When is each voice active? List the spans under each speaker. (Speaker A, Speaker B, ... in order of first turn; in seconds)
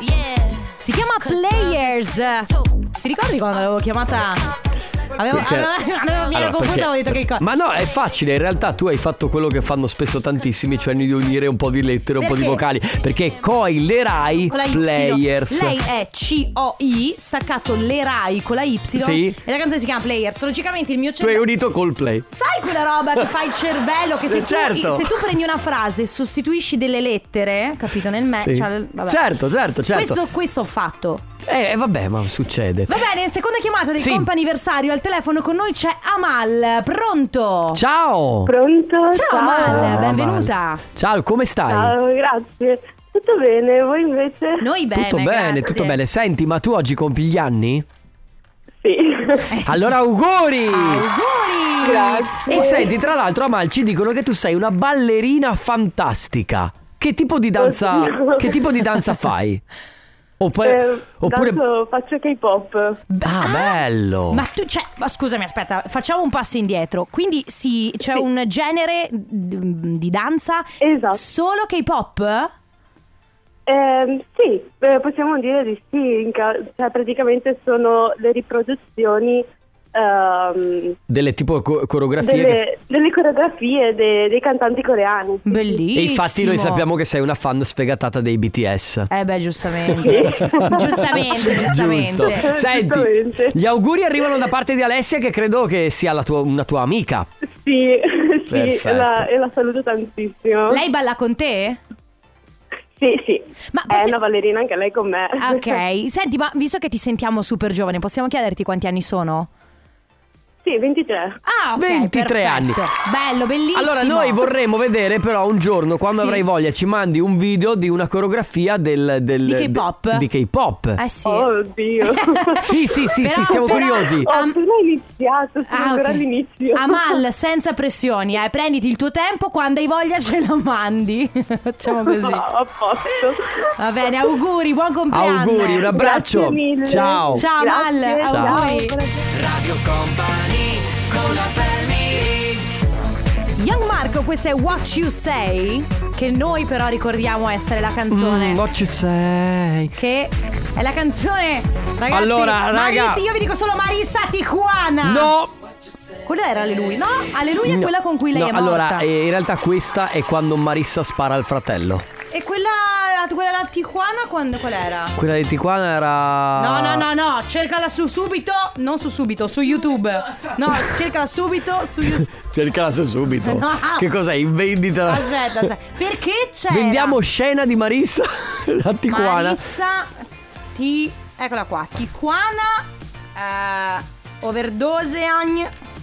Speaker A: 0.8-4.5, 5.2-7.4, 12.2-12.6, 14.5-21.5, 22.3-29.2, 29.9-31.2, 32.9-37.8, 39.1-40.8, 44.6-46.0, 50.7-52.8, 63.1-72.5, 85.5-86.8, 89.1-92.5, 100.7-101.8, 103.7-104.2, 105.4-109.5, 111.4-114.5, 116.1-116.4, 119.4-120.2, 121.0-121.5, 122.0-124.5, 125.7-132.4, 133.8-136.3, 137.3-138.9, 143.6-148.6, 149.9-155.3, 156.2-159.1, 162.3-165.1, 166.6-172.3, 173.4-174.1, 175.0-177.2, 179.1-180.1, 180.7-185.7
Speaker B: 5.2-5.7, 6.3-15.8, 18.9-19.4, 21.2-22.3, 24.3-25.3, 28.4-30.2, 31.4-33.0, 34.0-34.3, 37.7-38.5, 39.5-41.9, 44.9-47.9, 49.6-51.0, 52.5-59.6, 60.4-61.6, 63.2-64.4, 81.1-82.6, 85.9-89.1, 89.8-97.3, 98.5-99.3, 111.8-112.8, 113.7-121.0, 122.6-124.3, 135.1-137.4, 138.2-138.7, 139.3-142.7, 148.1-149.9, 152.1-153.2, 155.0-155.5, 157.6-162.0, 165.2-167.1, 172.0-175.7, 176.7-179.6
Speaker C: 38.5-40.0, 41.7-44.6, 48.8-49.5, 51.8-52.9, 57.6-58.7, 60.6-63.0, 70.8-71.2, 73.7-81.0, 82.2-85.8, 90.0-91.0, 92.2-93.5, 97.6-100.8, 103.0-105.8, 110.6-111.4, 121.2-122.8, 123.5-127.2, 131.9-133.7, 135.9-139.3